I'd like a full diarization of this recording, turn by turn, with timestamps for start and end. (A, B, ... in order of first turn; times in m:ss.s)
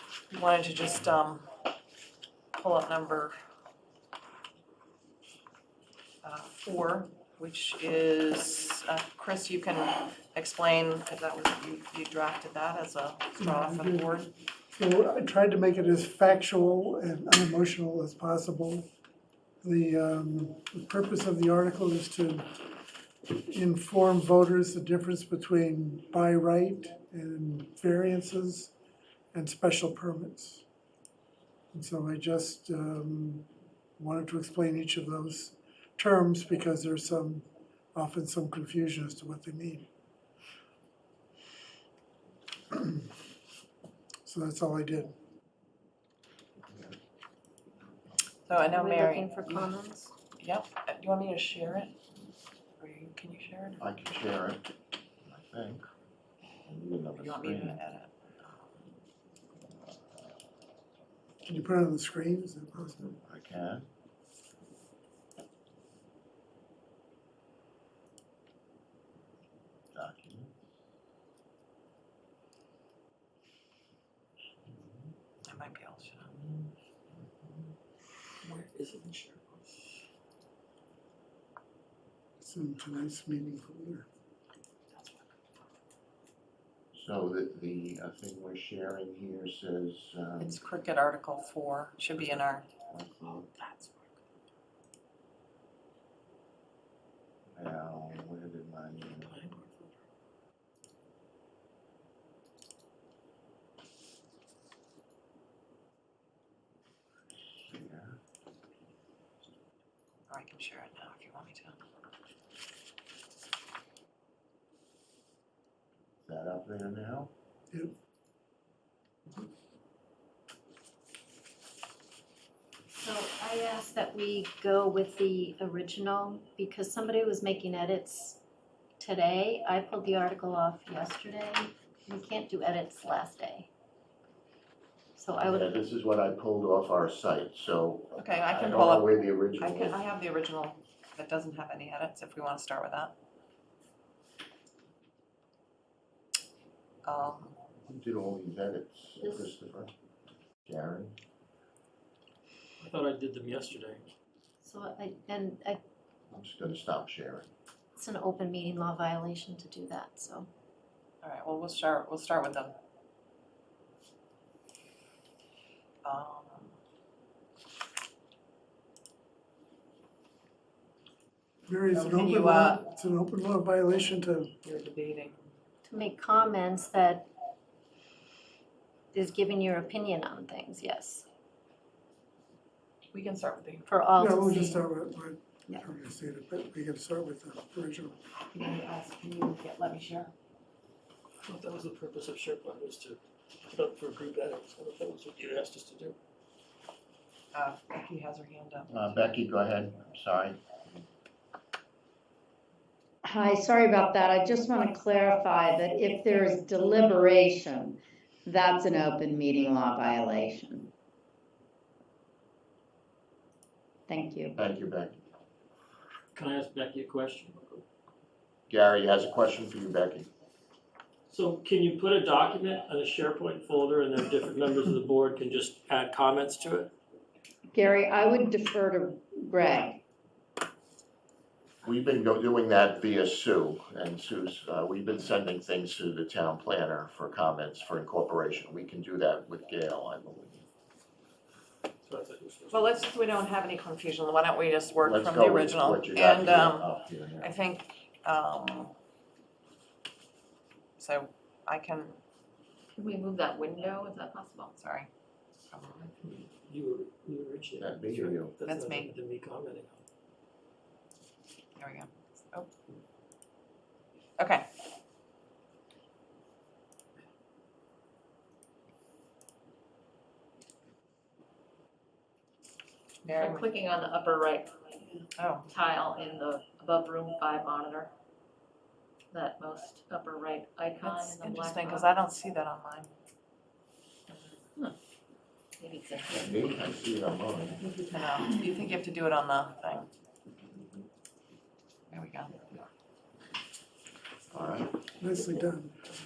0:00.3-0:01.5 A
0:02.6-0:03.3 A
0:06.2-0:14.3 A
0:13.3-0:14.2 B
0:14.7-0:18.9 B
0:19.6-0:22.5 B
0:23.3-0:28.7 B
0:29.3-0:30.6 B
0:31.7-0:33.5 B
0:34.0-0:39.9 B
0:42.7-0:43.0 B
0:44.2-0:45.1 B
0:46.7-0:46.9 C
0:48.4-0:52.0 A
0:48.7-0:50.1 D
0:52.8-0:53.8 A
0:53.8-0:54.7 C
0:55.3-0:55.9 C
0:56.6-0:57.8 C
0:57.2-0:58.6 A
1:01.4-1:03.0 B
1:03.1-1:03.8 C
1:09.9-1:10.5 C
1:14.6-1:15.1 C
1:15.4-1:16.3 A
1:16.2-1:17.7 C
1:18.4-1:20.0 E
1:22.4-1:24.1 B
1:24.9-1:25.2 E
1:26.9-1:30.6 C
1:30.4-1:32.6 A
1:32.9-1:33.4 C
1:33.4-1:34.1 E
1:37.6-1:39.4 C
1:39.1-1:39.9 E
1:47.5-1:48.2 C
1:50.3-1:51.8 A
1:56.2-1:57.3 C
2:02.9-2:08.4 D
2:09.0-2:13.7 D
2:15.2-2:15.8 D
2:15.4-2:20.0 C
2:18.1-2:23.1 A
2:27.0-2:27.6 A
2:27.8-2:29.9 C
2:30.7-2:31.1 C
2:32.8-2:34.0 E
2:34.6-2:35.8 D
2:36.3-2:37.5 C
2:38.0-2:40.5 D
2:41.2-2:42.7 A
2:46.0-2:46.7 A
2:51.7-2:54.5 B
2:51.9-2:52.8 A
2:54.6-2:55.4 A
2:55.8-2:57.3 D
2:59.1-3:01.2 D
3:03.1-3:03.9 A
3:03.9-3:04.9 D
3:04.2-3:08.2 B
3:08.5-3:10.3 A
3:11.4-3:16.2 E
3:17.5-3:19.3 A
3:18.9-3:20.6 C
3:23.2-3:30.9 F
3:34.1-3:34.6 F
3:34.6-3:35.2 C
3:36.3-3:37.8 E
3:38.7-3:40.3 C
3:41.3-3:46.9 E
3:47.7-3:50.0 F
3:51.8-4:00.6 C
4:02.0-4:02.8 E
4:02.7-4:06.9 A
4:05.0-4:07.5 C
4:07.4-4:08.9 A
4:11.0-4:12.2 A
4:12.9-4:14.7 G
4:14.8-4:15.1 A
4:15.7-4:16.1 A
4:16.2-4:20.0 E
4:17.8-4:18.5 C
4:18.6-4:19.1 A
4:21.8-4:22.7 A
4:24.4-4:24.7 A
4:33.2-4:33.7 A
4:33.3-4:35.1 G
4:35.4-4:35.7 A
4:35.6-4:38.1 G
4:39.3-4:42.2 G
4:41.0-4:43.1 A
4:45.8-4:46.6 G
4:46.3-4:47.9 C
4:47.9-4:50.1 A
4:52.1-4:52.8 A
4:54.5-4:55.0 C
4:55.1-4:56.0 B